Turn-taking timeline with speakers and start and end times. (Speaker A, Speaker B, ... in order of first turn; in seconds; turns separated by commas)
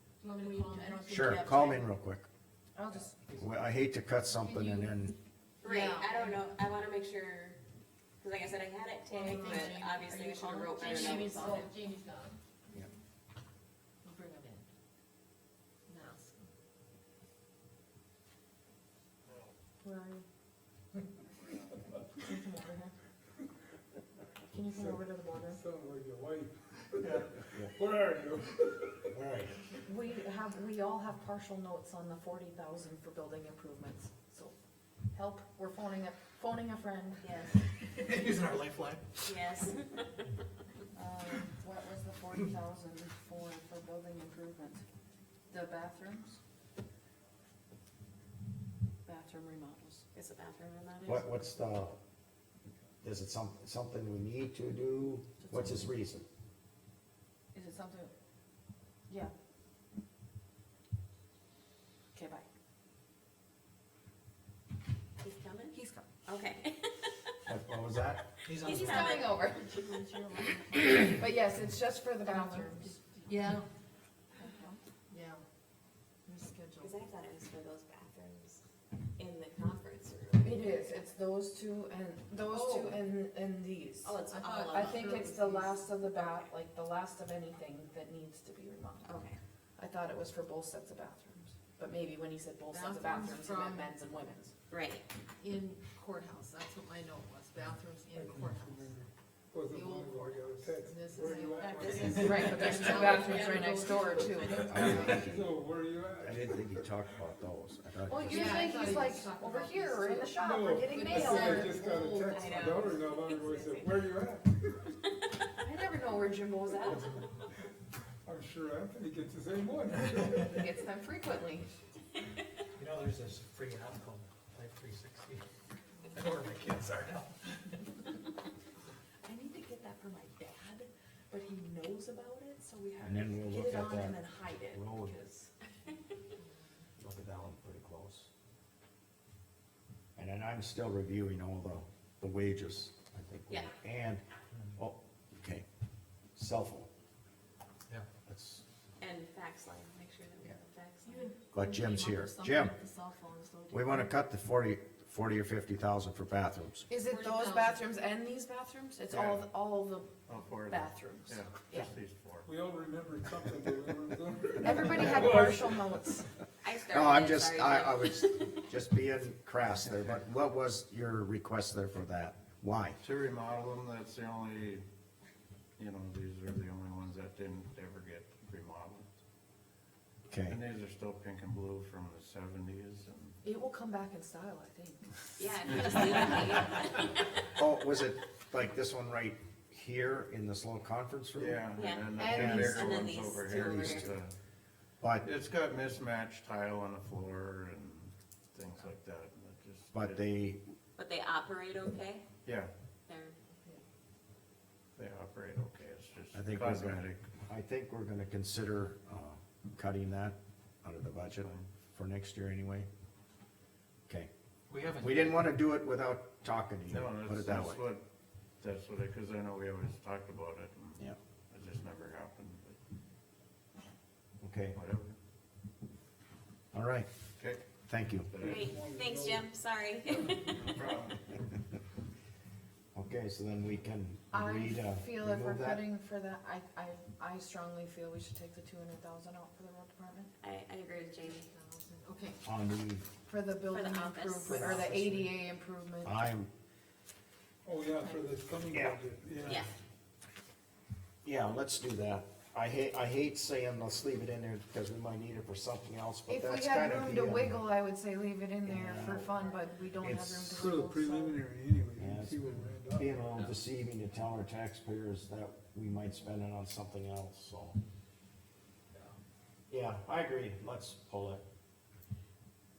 Speaker A: 0.2-1.9, Speaker B: 0.4-0.8, Speaker C: 1.1-2.3, Speaker D: 2.7-3.1, Speaker E: 3.0-3.5, Speaker C: 3.4-5.2, Speaker A: 4.4-5.0, Speaker B: 5.6-7.6, Speaker A: 5.6-6.4, Speaker B: 8.2-11.7, Speaker A: 9.1-12.4, Speaker A: 14.0-14.7, Speaker A: 15.9-16.5, Speaker D: 19.8-20.2, Speaker D: 22.2-22.9, Speaker D: 24.5-25.6, Speaker F: 24.7-29.1, Speaker C: 27.0-27.7, Speaker C: 29.2-29.5, Speaker D: 29.8-34.5, Speaker D: 35.1-37.3, Speaker B: 37.2-37.6, Speaker E: 38.0-39.3, Speaker B: 39.2-40.1, Speaker D: 40.9-44.8, Speaker D: 45.5-46.4, Speaker D: 49.0-50.0, Speaker B: 50.1-51.2, Speaker C: 51.0-52.0, Speaker C: 53.0-56.2, Speaker D: 55.5-55.9, Speaker D: 57.5-58.1, Speaker D: 62.1-62.5, Speaker B: 65.2-67.3, Speaker D: 65.7-66.1, Speaker C: 67.5-68.3, Speaker E: 68.4-69.3, Speaker B: 68.5-71.2, Speaker D: 68.6-69.8, Speaker A: 70.1-70.9, Speaker D: 71.0-73.0, Speaker A: 72.2-73.7, Speaker A: 74.4-75.4, Speaker A: 76.3-76.9, Speaker B: 76.8-78.6, Speaker B: 79.2-80.8, Speaker D: 80.4-84.1, Speaker A: 82.4-83.0, Speaker B: 84.0-85.4, Speaker A: 84.2-85.9, Speaker D: 84.7-89.1, Speaker B: 89.0-89.4, Speaker D: 89.8-94.5, Speaker A: 92.7-94.0, Speaker B: 94.7-95.0, Speaker A: 95.4-98.9, Speaker F: 98.1-102.7, Speaker A: 99.7-105.3, Speaker B: 101.5-104.0, Speaker D: 102.1-104.6, Speaker C: 104.6-105.5, Speaker F: 104.6-106.9, Speaker C: 106.2-108.8, Speaker D: 108.1-112.3, Speaker A: 108.2-112.8, Speaker F: 110.4-114.9, Speaker B: 112.3-114.0, Speaker D: 115.5-117.1, Speaker F: 116.9-117.2, Speaker F: 118.2-120.6, Speaker D: 120.2-121.7, Speaker E: 122.8-125.4, Speaker E: 126.1-127.8, Speaker D: 129.2-135.4, Speaker C: 133.0-135.2, Speaker B: 133.5-133.9, Speaker B: 134.5-134.9, Speaker C: 137.0-138.3, Speaker C: 140.2-144.2, Speaker C: 144.8-145.6, Speaker C: 146.3-146.9, Speaker C: 148.2-148.6, Speaker B: 149.0-151.3, Speaker A: 151.1-154.1, Speaker C: 151.5-152.8, Speaker C: 153.7-156.9, Speaker D: 156.9-161.9, Speaker A: 157.0-157.8, Speaker G: 159.1-159.5, Speaker G: 160.3-162.5, Speaker F: 162.4-165.9, Speaker D: 164.6-166.3, Speaker B: 166.6-168.6, Speaker C: 166.9-173.0, Speaker G: 173.0-174.8, Speaker G: 175.8-179.1, Speaker C: 180.3-180.6, Speaker G: 180.5-183.4, Speaker D: 183.4-185.2, Speaker B: 185.4-187.2, Speaker C: 187.6-194.1, Speaker G: 191.3-194.3, Speaker B: 191.7-194.1, Speaker D: 192.2-193.5, Speaker C: 195.0-195.3, Speaker G: 195.2-200.3, Speaker C: 199.9-200.6, Speaker B: 200.9-202.2, Speaker G: 202.4-202.7, Speaker B: 203.1-203.4, Speaker G: 204.9-207.2, Speaker C: 206.3-212.9, Speaker G: 211.3-211.7, Speaker E: 214.7-215.5, Speaker C: 214.9-217.8, Speaker G: 216.9-218.1, Speaker G: 218.6-222.8, Speaker C: 224.4-224.8, Speaker G: 224.7-225.2, Speaker C: 226.7-227.1, Speaker C: 227.9-228.3, Speaker G: 228.3-228.7, Speaker F: 228.4-229.5, Speaker B: 228.4-230.6, Speaker G: 230.6-231.3, Speaker C: 232.9-235.8, Speaker D: 234.3-240.3, Speaker B: 240.4-241.5, Speaker A: 241.3-242.4, Speaker C: 242.4-243.1, Speaker D: 243.2-246.2, Speaker B: 243.7-244.5, Speaker C: 244.5-245.3, Speaker E: 244.5-244.8, Speaker C: 246.0-246.5, Speaker F: 247.6-249.7, Speaker C: 248.7-249.0, Speaker B: 249.4-249.7, Speaker C: 251.2-257.6, Speaker D: 256.3-261.4, Speaker C: 258.6-259.4, Speaker C: 260.0-260.7, Speaker F: 260.5-263.5, Speaker C: 262.0-267.8, Speaker C: 269.7-271.4